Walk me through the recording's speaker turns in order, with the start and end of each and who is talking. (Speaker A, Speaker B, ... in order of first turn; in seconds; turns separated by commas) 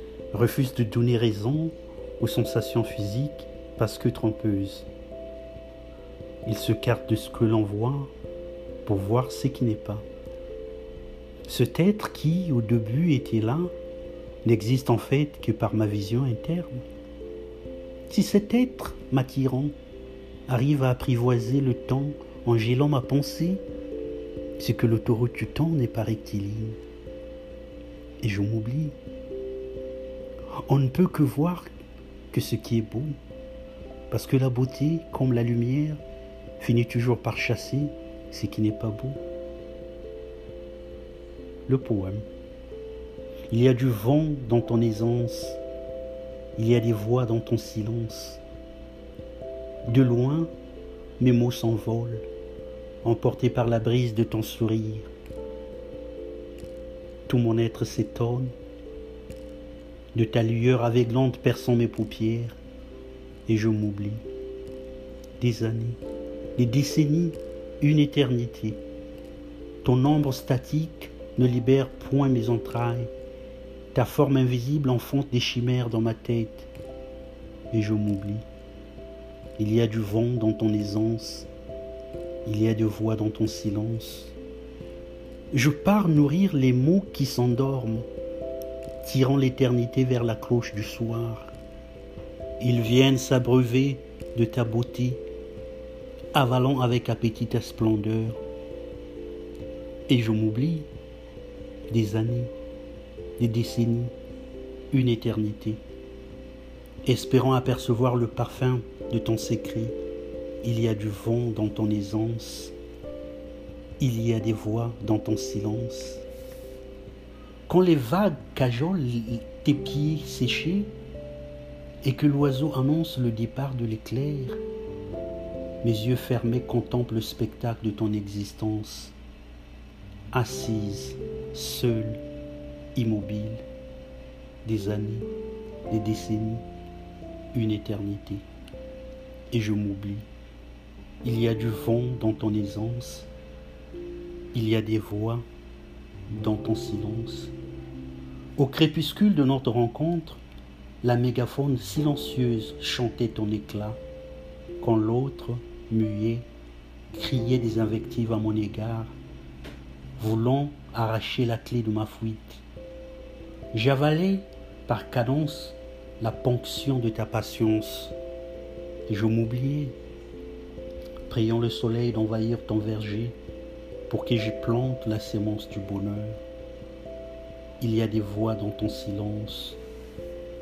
Speaker A: 0.3-4.9, Speaker A: 6.4-8.1, Speaker A: 8.8-10.0, Speaker A: 11.4-13.7, Speaker A: 14.4-16.8, Speaker A: 18.1-19.7, Speaker A: 20.5-23.6, Speaker A: 24.6-26.8, Speaker A: 28.2-28.9, Speaker A: 30.6-31.7, Speaker A: 32.3-33.2, Speaker A: 34.1-36.0, Speaker A: 36.6-39.2, Speaker A: 41.7-42.2, Speaker A: 43.5-45.6, Speaker A: 46.5-48.4, Speaker A: 49.9-50.5, Speaker A: 51.2-52.2, Speaker A: 53.0-55.1, Speaker A: 57.3-58.5, Speaker A: 60.1-62.6, Speaker A: 63.5-64.2, Speaker A: 65.4-66.0, Speaker A: 66.5-68.8, Speaker A: 69.8-73.1, Speaker A: 73.9-76.7, Speaker A: 77.7-78.4, Speaker A: 79.6-81.5, Speaker A: 82.4-84.3, Speaker A: 85.5-88.0, Speaker A: 89.0-91.5, Speaker A: 92.6-95.2, Speaker A: 96.3-98.4, Speaker A: 100.1-100.9, Speaker A: 101.9-102.5, Speaker A: 103.4-104.1, Speaker A: 104.9-105.8, Speaker A: 107.0-110.0, Speaker A: 110.6-112.7, Speaker A: 114.0-116.2, Speaker A: 117.7-120.9, Speaker A: 122.0-124.6, Speaker A: 125.8-129.1, Speaker A: 130.3-132.2, Speaker A: 132.9-133.6, Speaker A: 134.6-135.3, Speaker A: 135.9-136.6, Speaker A: 137.5-138.4, Speaker A: 139.5-140.2, Speaker A: 141.2-143.3, Speaker A: 144.5-145.4, Speaker A: 146.3-147.5, Speaker A: 148.6-150.4, Speaker A: 151.0-154.0, Speaker A: 154.8-156.5, Speaker A: 157.1-159.2, Speaker A: 160.2-162.6, Speaker A: 163.7-168.1, Speaker A: 169.1-169.9, Speaker A: 171.3-173.4, Speaker A: 174.1-176.4, Speaker A: 177.8-179.8